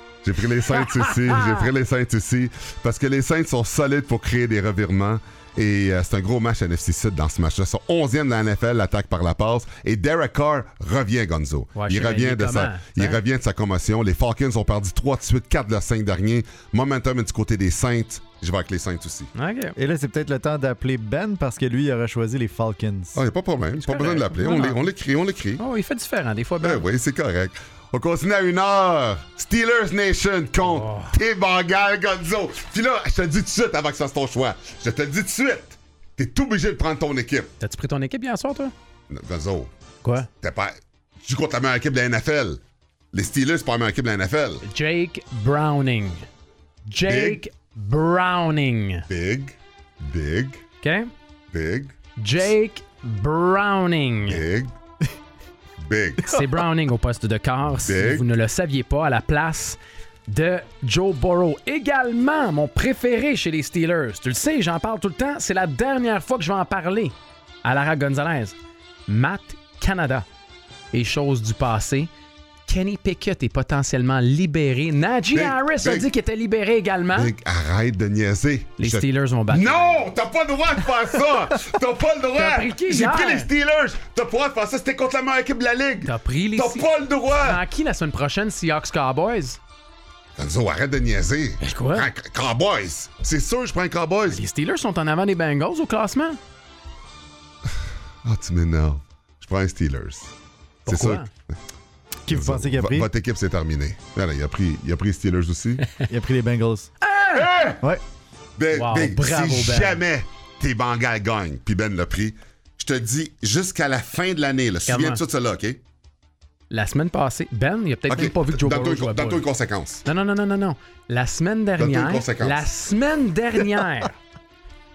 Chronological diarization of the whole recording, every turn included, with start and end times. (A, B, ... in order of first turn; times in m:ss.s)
0:00.2-0:19.3 A
0:00.8-0:01.7 B
0:11.8-0:13.2 B
0:19.4-0:19.8 B
0:19.8-0:23.2 C
0:23.2-0:25.6 A
0:23.8-0:24.8 B
0:25.6-0:26.8 B
0:26.6-0:37.5 A
0:30.6-0:31.2 B
0:37.6-0:38.7 B
0:39.1-0:39.7 A
0:40.0-0:40.3 B
0:40.4-0:42.6 A
0:43.1-0:44.6 A
0:44.6-0:46.2 B
0:46.9-0:49.0 B
0:47.0-0:47.4 A
0:49.1-0:50.6 A
0:50.8-0:51.1 B
0:51.5-0:51.9 A
0:52.2-0:54.4 B
0:54.3-0:54.7 A
0:55.8-0:56.3 A
0:56.2-1:08.6 B
0:57.8-0:58.3 A
1:09.1-1:10.2 B
1:10.9-1:12.1 B
1:12.7-1:17.3 B
1:15.3-1:16.1 A
1:17.1-1:27.6 A
1:18.8-1:20.0 B
1:22.4-1:23.5 B
1:26.0-1:29.6 B
1:30.4-1:34.4 A
1:31.6-1:32.1 B
1:34.3-1:36.4 B
1:38.2-1:40.3 A
1:40.9-1:41.3 B
1:40.9-1:41.3 A
1:42.3-1:43.1 C
1:42.3-1:45.9 A
1:46.1-1:46.9 C
1:47.0-1:47.7 B
1:47.4-1:47.8 A
1:48.6-1:55.8 A
1:48.7-1:50.0 B
1:54.9-1:55.2 B
1:56.7-1:59.4 B
1:58.1-2:00.0 A
2:00.0-2:04.2 B
2:01.8-2:02.7 A